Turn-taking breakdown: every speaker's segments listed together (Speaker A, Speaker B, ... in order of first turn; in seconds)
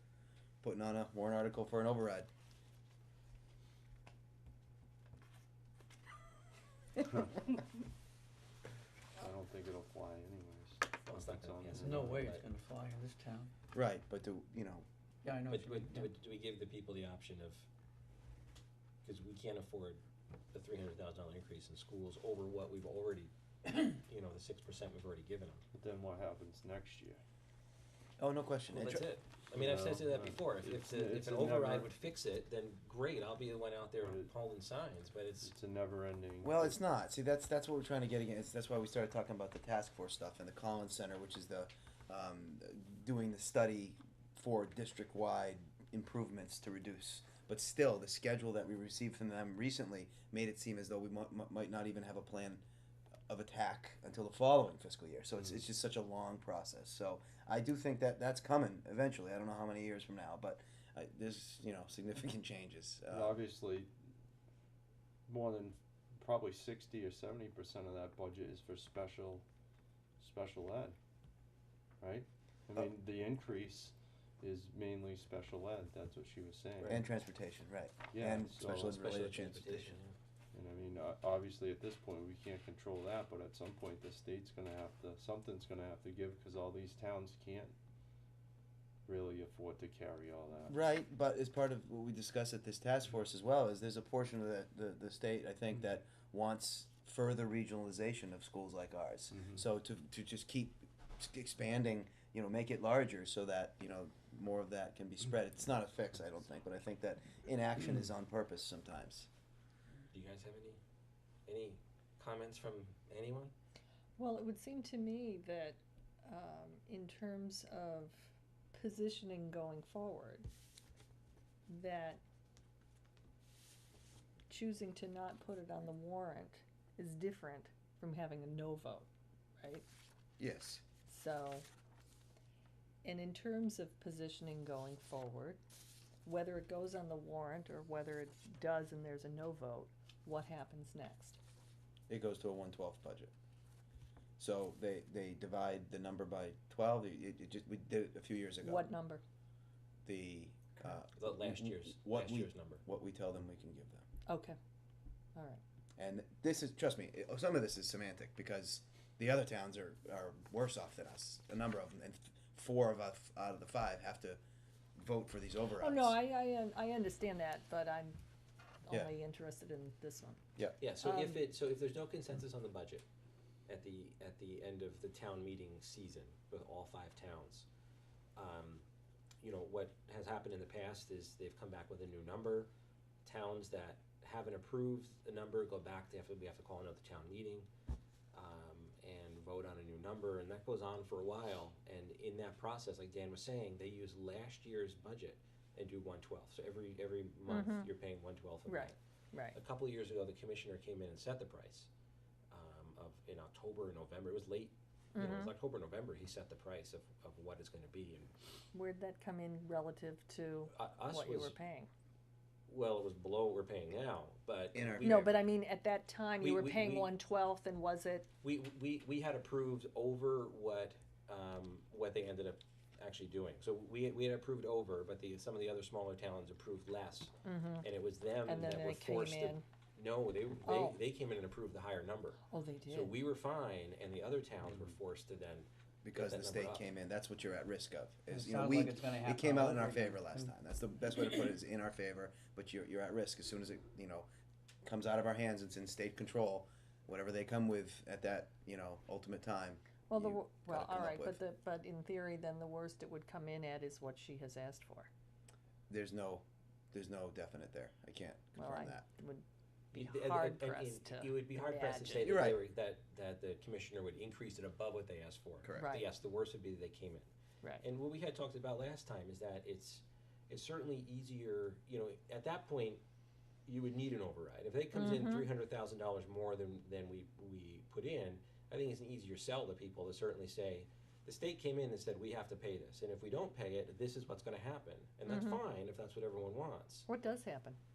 Speaker A: 0.6-2.3, 13.7-14.8, 28.2-29.0, 36.4-52.6, 53.3-63.4, 76.8-80.0, 90.7-109.3, 130.4-130.8, 142.1-143.3, 144.4-148.9, 150.1-154.0, 156.0-164.4, 164.9-166.2, 214.7-215.4, 236.0-244.3, 244.8-251.4, 255.9-259.1, 262.2-262.6, 265.6-265.9
Speaker B: 7.0-7.5, 9.2-12.3, 25.7-27.2, 29.5-31.9, 35.4-36.8, 63.1-63.9, 65.3-69.4, 70.2-71.0, 72.0-77.0, 78.1-79.0, 80.5-87.8, 89.0-90.8
Speaker C: 11.1-12.4, 15.5-17.6, 19.0-20.0, 20.5-25.6, 28.7-35.5, 78.9-80.1, 110.1-110.8, 111.5-113.5, 151.2-152.8, 170.8-173.0, 173.7-177.7, 178.3-178.8, 179.4-182.7, 183.2-187.7, 188.3-198.9, 199.5-201.9, 202.5-208.3, 210.7-211.6, 212.7-215.3, 216.4-217.1, 218.4-236.9, 259.9-267.3, 267.8-273.0, 273.6-287.1
Speaker D: 11.8-13.5, 15.2-16.1, 238.3-240.2
Speaker E: 114.2-120.5, 121.7-122.2, 124.5-129.1, 129.6-129.8, 131.1-131.7, 133.0-135.6, 136.2-141.4, 148.6-149.2, 154.3-154.6, 155.3-155.6, 165.8-168.2, 168.9-170.4, 171.0-171.4, 197.5-197.9, 198.7-199.6, 205.1-205.5, 208.7-211.9, 215.0-218.3, 227.4-227.9, 228.4-229.6, 230.6-231.0, 232.5-233.1, 250.1-255.1, 258.6-262.3, 265.7-266.1, 274.9-275.5, 285.2-285.6, 287.1-287.8